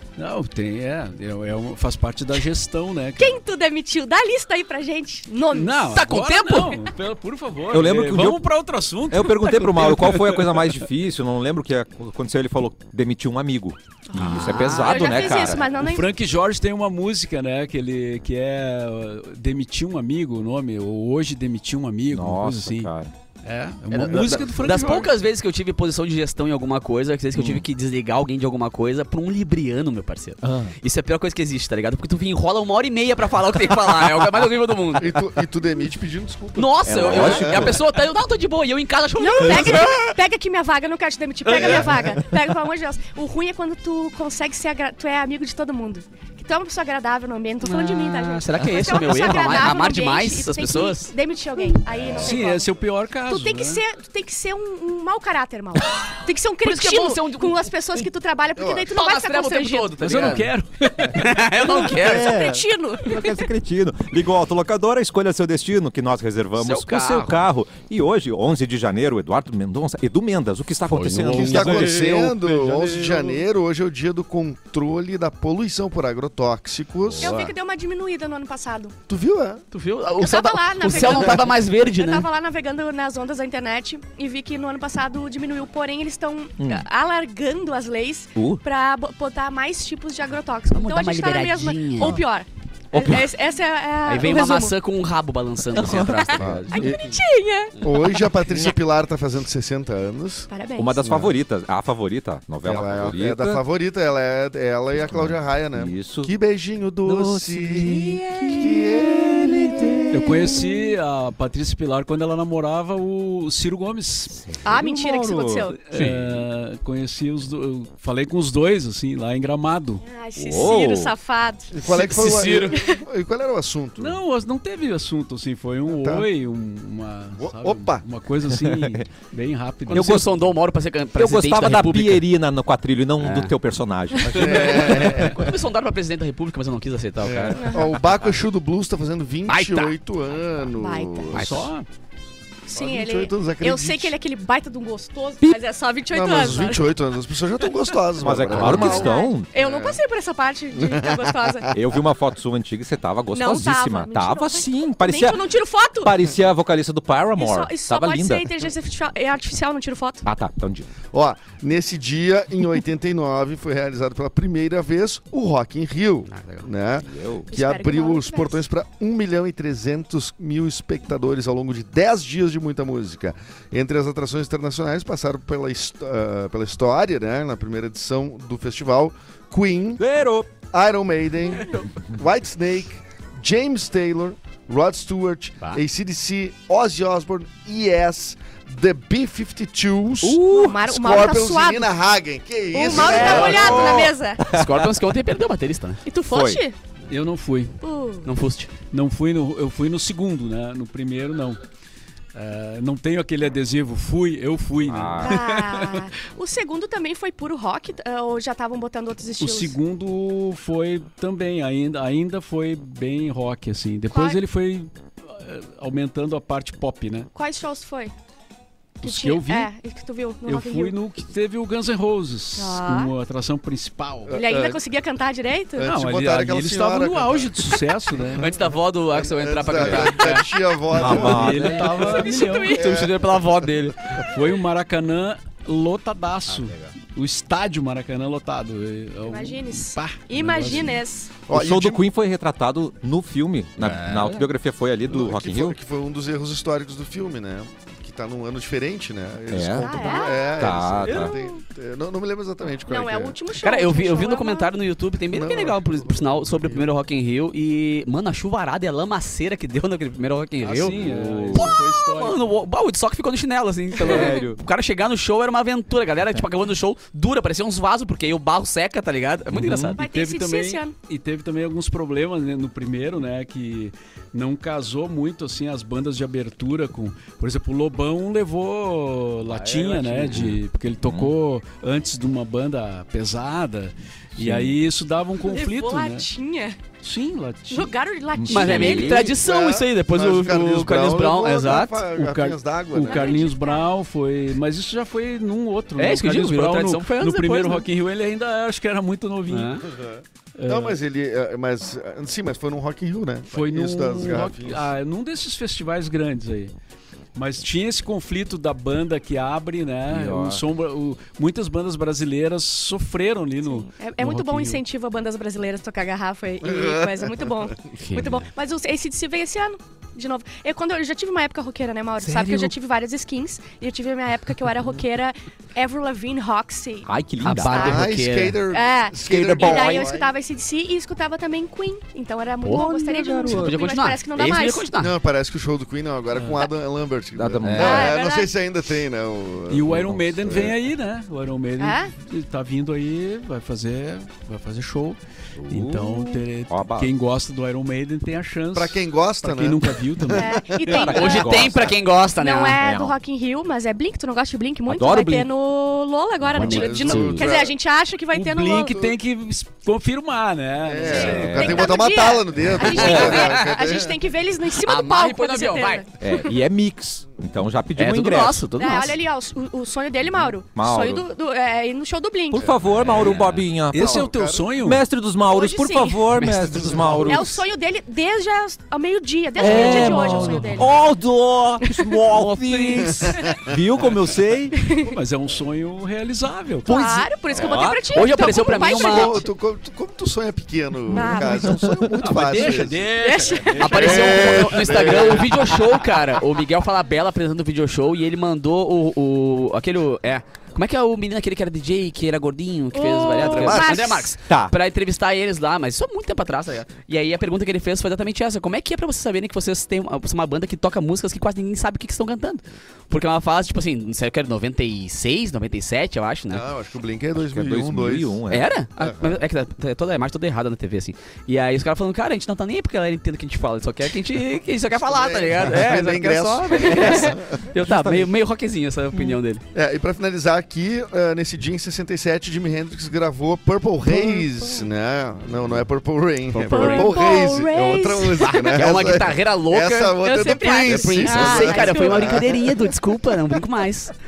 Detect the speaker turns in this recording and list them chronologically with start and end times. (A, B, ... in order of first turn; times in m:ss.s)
0:00.2-0:03.4 A
0:03.2-0:06.0 B
0:05.5-0:10.8 A
0:05.9-0:06.8 C
0:07.7-0:08.4 D
0:09.1-0:15.7 D
0:14.1-0:16.1 B
0:14.2-0:15.5 C
0:15.7-0:22.9 A
0:22.1-0:23.1 D
0:23.4-0:25.1 A
0:23.9-0:35.2 C
0:24.0-0:25.0 E
0:27.3-0:27.6 D
0:30.4-0:30.7 D
0:35.0-0:37.8 E
0:36.6-0:40.1 C
0:36.8-0:37.8 D
0:39.2-0:52.7 B
0:41.5-0:41.8 C
0:47.6-0:51.1 C
0:52.0-0:52.3 E
0:52.1-0:53.8 A
0:53.2-1:00.3 B
0:56.6-0:58.0 C
0:58.6-0:58.9 E
0:58.9-1:00.5 C
1:00.0-1:01.5 A
1:01.0-1:02.3 C
1:01.7-1:03.4 B
1:02.0-1:12.1 D
1:06.6-1:07.4 C
1:10.9-1:13.0 C
1:11.2-1:12.1 A
1:11.3-1:17.5 E
1:12.6-1:13.2 A
1:17.0-1:17.4 D
1:17.2-1:18.9 B
1:19.1-1:19.6 E
1:19.7-1:22.3 C
1:20.2-1:34.8 B
1:20.9-1:21.4 E
1:26.6-1:26.8 D
1:28.4-1:28.6 D
1:30.7-1:32.2 C
1:32.9-1:33.3 D
1:34.0-1:37.0 C
1:35.7-1:36.6 D
1:35.9-1:37.8 B
1:36.4-1:37.2 E
1:37.8-1:40.5 E
1:40.5-1:41.1 B
1:40.8-1:43.6 D
1:41.0-1:41.3 E
1:42.6-1:49.9 E
1:45.0-1:46.3 D
1:47.0-1:50.6 D
1:50.1-1:54.4 A
1:54.4-1:56.4 D
1:54.6-1:55.8 B
1:55.8-2:00.0 A
2:00.0-2:01.7 B
2:00.4-2:01.1 D
2:01.7-2:04.1 E
2:01.8-2:02.8 C
2:02.7-2:03.0 B
2:04.0-2:10.3 A
2:05.9-2:06.3 E
2:07.4-2:08.0 E
2:08.5-2:09.0 D
2:09.9-2:12.2 C
2:09.9-2:10.3 D
2:11.1-2:14.8 D
2:13.2-2:13.5 C
2:14.2-2:15.5 E
2:14.2-2:18.4 C
2:14.9-2:15.2 A
2:17.2-2:21.7 E
2:17.6-2:17.9 B
2:19.5-2:20.0 C
2:20.7-2:21.4 B
2:21.3-2:21.9 A
2:21.3-2:21.7 C
2:22.7-2:26.9 B
2:22.7-2:24.2 E
2:26.1-2:30.0 E
2:28.2-2:29.5 D
2:28.5-2:31.7 B
2:28.6-2:29.0 C
2:30.8-2:31.7 E
2:31.7-2:35.4 D
2:33.3-2:36.1 B
2:36.0-2:38.5 D
2:37.4-2:40.2 B
2:40.2-2:40.9 D
2:41.1-3:00.0 E
2:46.3-2:46.7 C
2:47.0-2:47.5 D
2:47.5-2:48.6 B
3:00.0-3:00.5 D
3:00.7-3:14.1 E
3:10.2-3:10.8 D
3:10.4-3:11.9 B
3:12.7-3:14.4 B
3:12.9-3:16.0 C
3:14.4-3:14.8 D
3:16.0-3:16.8 B
3:16.3-3:16.6 D
3:17.1-3:17.8 A
3:17.8-3:18.3 B
3:18.2-3:18.7 C
3:18.9-3:21.6 A
3:22.3-3:26.1 A
3:24.8-3:25.4 D
3:25.2-3:29.7 B
3:29.4-3:37.3 A
3:34.1-3:34.4 B
3:37.3-3:38.1 B
3:39.0-3:39.7 A
3:39.0-3:41.0 B
3:40.4-3:44.4 A
3:42.6-3:43.1 B
3:44.3-3:44.8 E
3:44.3-3:45.9 B
3:45.8-3:53.4 E
3:45.8-3:48.5 A
3:48.4-3:50.5 C
3:49.8-3:50.1 D
3:49.9-3:50.4 B
3:50.9-3:51.8 D
3:50.9-3:52.8 A
3:51.9-3:52.8 B
3:52.3-3:54.2 C
3:54.3-4:01.0 A
3:59.3-4:01.3 B
4:01.4-4:02.0 E
4:01.5-4:05.8 D
4:03.8-4:04.4 C
4:05.0-4:13.4 E
4:09.5-4:11.4 D
4:09.8-4:11.6 B
4:12.9-4:14.7 B
4:13.6-4:21.0 C
4:15.3-4:16.8 E
4:20.6-4:22.5 A
4:21.0-4:21.8 D
4:21.5-4:30.0 C
4:24.0-4:24.5 D
4:29.5-4:30.0 D
4:29.9-4:30.9 B
4:30.0-4:46.3 A
4:39.6-4:40.3 C
4:39.6-4:41.3 D
4:44.4-4:44.8 D
4:45.4-4:46.8 B
4:47.0-4:47.9 A
4:47.7-4:49.3 B
4:48.3-4:49.3 D
4:48.5-4:52.0 C
4:49.2-4:53.5 E
4:51.7-4:59.9 A
4:53.0-4:53.9 B
4:56.0-4:57.8 C
4:59.5-4:59.8 C
4:59.8-5:04.9 E
5:00.6-5:01.0 A
5:03.5-5:06.7 A
5:07.4-5:14.8 A
5:10.1-5:10.6 D
5:13.9-5:28.1 B
5:16.6-5:18.0 E
5:18.0-5:18.4 C
5:22.2-5:22.7 C
5:27.0-5:28.0 D
5:27.4-5:28.6 C
5:27.7-5:30.3 E
5:28.7-5:34.9 B
5:29.2-5:30.1 D
5:32.6-5:32.9 C
5:32.7-5:33.8 D
5:33.5-5:35.1 C
5:35.0-5:40.7 E
5:37.3-5:38.1 D
5:37.7-5:38.5 B
5:39.7-5:51.1 A
5:41.8-5:42.1 B
5:45.6-5:47.1 D
5:48.7-5:50.8 E
5:50.3-5:51.7 B
5:50.8-5:51.9 D
5:51.0-5:52.8 C
5:52.4-5:59.0 B
5:52.8-5:53.1 D
5:54.9-5:55.5 D
5:56.5-5:57.5 C
5:56.6-5:57.7 E
5:58.3-6:01.8 A
6:00.8-6:04.3 E
6:01.0-6:06.6 B
6:01.0-6:01.9 D
6:02.9-6:03.8 C
6:04.8-6:06.0 C
6:06.2-6:08.6 D
6:08.0-6:09.2 C
6:08.8-6:12.7 B
6:10.7-6:11.2 D
6:12.5-6:17.6 D
6:13.0-6:13.6 C
6:13.9-6:15.0 A
6:13.9-6:14.7 E
6:15.5-6:16.5 B
6:16.5-6:17.3 E
6:17.1-6:20.9 B
6:19.6-6:24.8 D
6:19.6-6:20.6 C
6:21.8-6:22.1 B
6:22.3-6:23.4 C
6:23.4-6:23.7 E
6:24.7-6:25.2 B
6:25.1-6:27.3 A
6:26.8-6:29.4 B
6:27.5-6:28.0 D
6:28.0-6:29.4 C
6:28.6-6:33.1 E
6:31.1-6:31.8 B
6:31.1-6:32.1 D
6:32.1-6:34.6 A
6:33.2-6:34.4 B
6:33.8-6:56.6 C
6:33.9-6:36.1 E
6:42.9-6:44.3 B
6:43.4-6:44.0 E
6:44.4-6:44.7 D
6:56.5-6:58.4 E
6:57.4-6:58.7 D
6:58.5-7:09.6 C
6:59.0-6:59.4 E
7:05.0-7:07.6 E
7:06.9-7:07.2 B
7:07.7-7:08.3 D
7:09.7-7:22.9 E
7:16.5-7:17.2 C
7:16.7-7:18.8 B
7:18.4-7:20.2 C
7:20.2-7:22.5 B
7:20.8-7:24.1 C